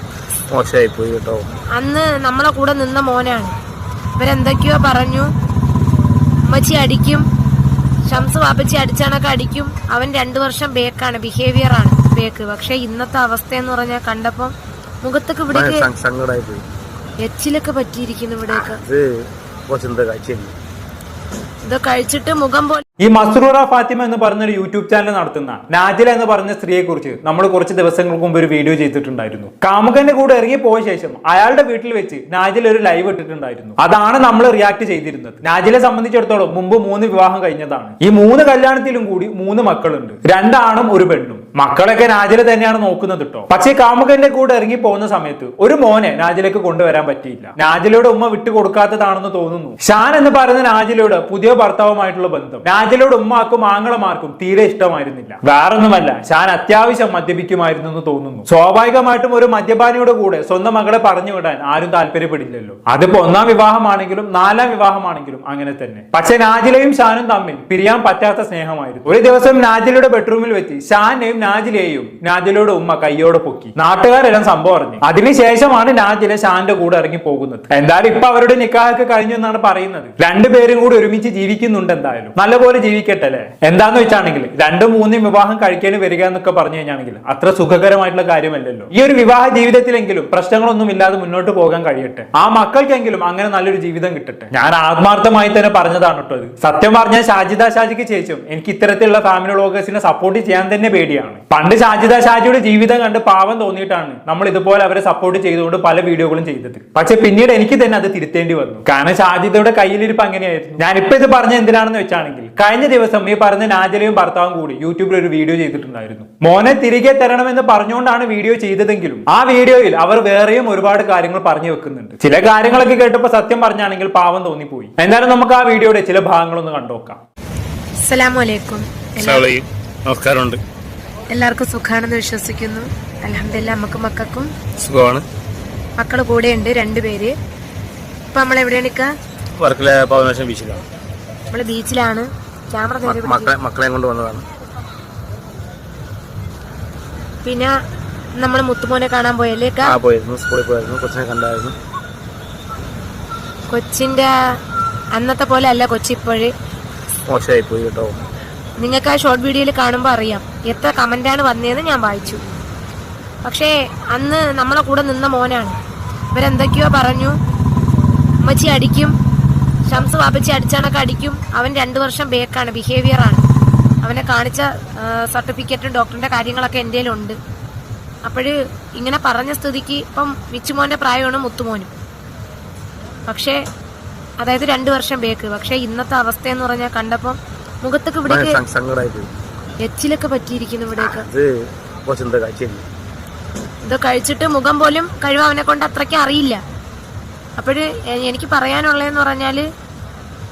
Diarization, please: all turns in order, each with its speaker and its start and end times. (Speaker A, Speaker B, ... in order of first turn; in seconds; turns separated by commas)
Speaker A: 0.5-1.5, Speaker B: 1.8-3.5, Speaker B: 4.2-5.3, Speaker B: 6.5-7.2, Speaker B: 8.1-15.9, Speaker A: 15.5-16.6, Speaker B: 17.2-18.8, Speaker A: 18.5-20.5, Speaker B: 21.6-22.8, Speaker C: 23.0-127.2, Speaker B: 128.0-129.5, Speaker A: 129.2-130.6, Speaker B: 131.3-134.5, Speaker A: 134.8-135.2, Speaker B: 136.0-137.3, Speaker B: 138.3-139.1, Speaker A: 139.6-140.8, Speaker B: 141.5-143.5, Speaker A: 143.1-144.4, Speaker B: 147.4-147.7, Speaker B: 148.4-149.9, Speaker A: 149.8-151.8, Speaker B: 153.7-154.3, Speaker B: 155.1-156.5, Speaker A: 157.3-158.2, Speaker B: 158.8-162.4, Speaker B: 163.4-165.8, Speaker B: 166.3-167.3, Speaker B: 168.4-169.1, Speaker B: 169.9-173.4, Speaker B: 174.0-177.4, Speaker B: 178.2-181.9, Speaker B: 183.3-183.6, Speaker B: 184.4-188.6, Speaker A: 188.3-189.3, Speaker B: 189.8-191.3, Speaker A: 191.0-192.9, Speaker B: 193.8-196.6, Speaker B: 197.6-199.7